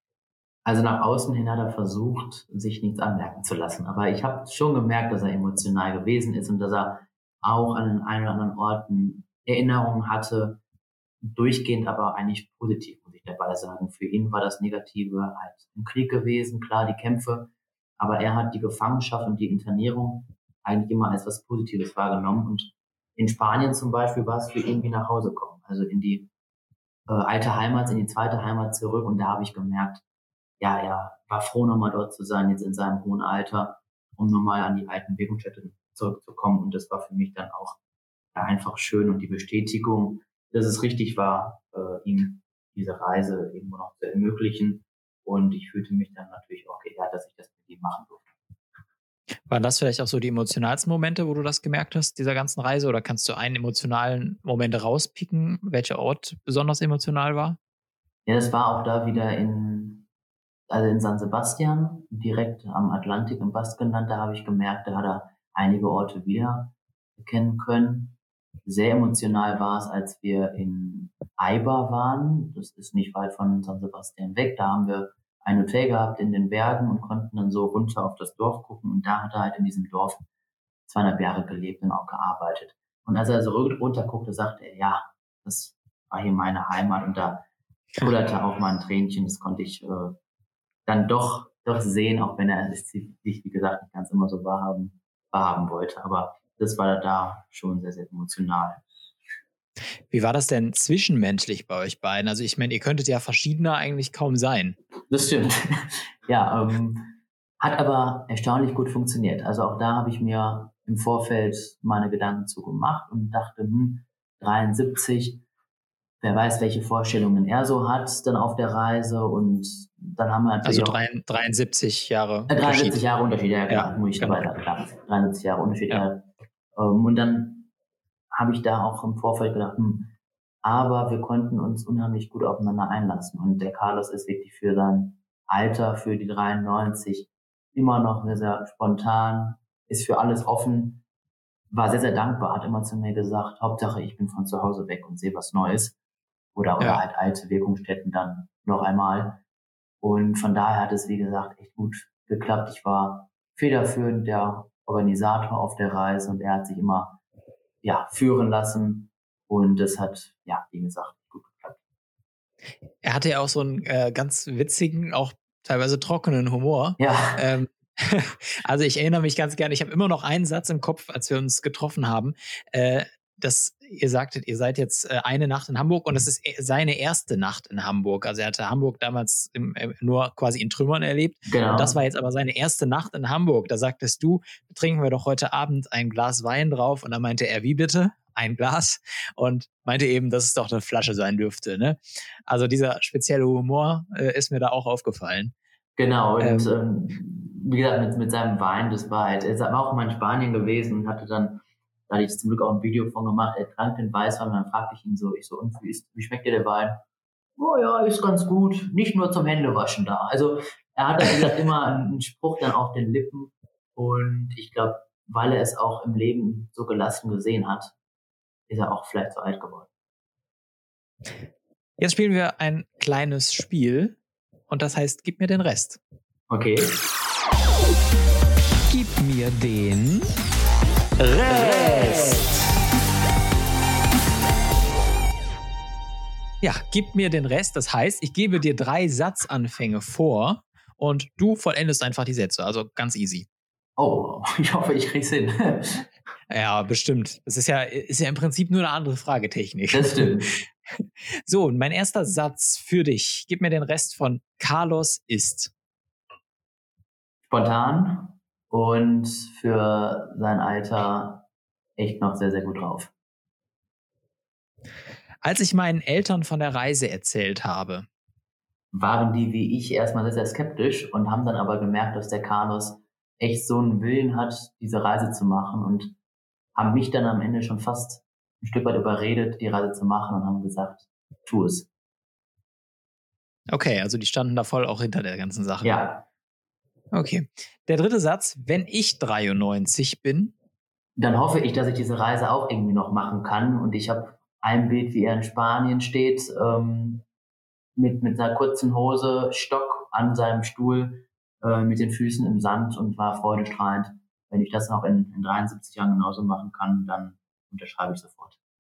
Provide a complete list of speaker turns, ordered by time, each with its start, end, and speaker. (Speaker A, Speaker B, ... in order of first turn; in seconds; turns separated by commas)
Speaker A: 0.7-10.6, Speaker A: 11.2-26.3, Speaker A: 27.1-30.0, Speaker A: 30.6-37.8, Speaker A: 38.4-48.3, Speaker B: 49.5-57.6, Speaker A: 58.3-60.1, Speaker A: 60.7-80.2, Speaker A: 80.9-87.5, Speaker A: 88.0-90.2, Speaker A: 90.9-98.8, Speaker B: 100.1-104.8, Speaker A: 105.1-115.4, Speaker A: 116.2-121.0, Speaker B: 120.7-123.0, Speaker A: 122.5-127.7, Speaker B: 123.7-124.5, Speaker A: 128.3-141.0, Speaker A: 141.7-146.0, Speaker A: 146.6-149.4, Speaker A: 150.0-157.2, Speaker A: 157.8-161.8, Speaker B: 163.0-195.5, Speaker A: 167.0-167.5, Speaker A: 181.5-182.0, Speaker A: 196.0-207.0, Speaker B: 196.4-196.7, Speaker A: 207.6-217.9, Speaker A: 218.7-219.9, Speaker B: 222.0-224.2, Speaker B: 224.7-226.0, Speaker A: 226.5-226.9, Speaker B: 228.9-230.3, Speaker B: 231.2-232.5, Speaker B: 236.6-243.5, Speaker A: 244.0-246.1, Speaker B: 246.5-255.7, Speaker A: 249.9-250.5, Speaker A: 257.5-261.4, Speaker A: 262.0-263.1, Speaker B: 265.4-268.1, Speaker A: 268.9-276.1, Speaker A: 276.8-281.9, Speaker B: 283.7-286.0, Speaker A: 285.8-286.2, Speaker B: 287.1-290.5, Speaker A: 291.2-297.2, Speaker A: 298.0-308.6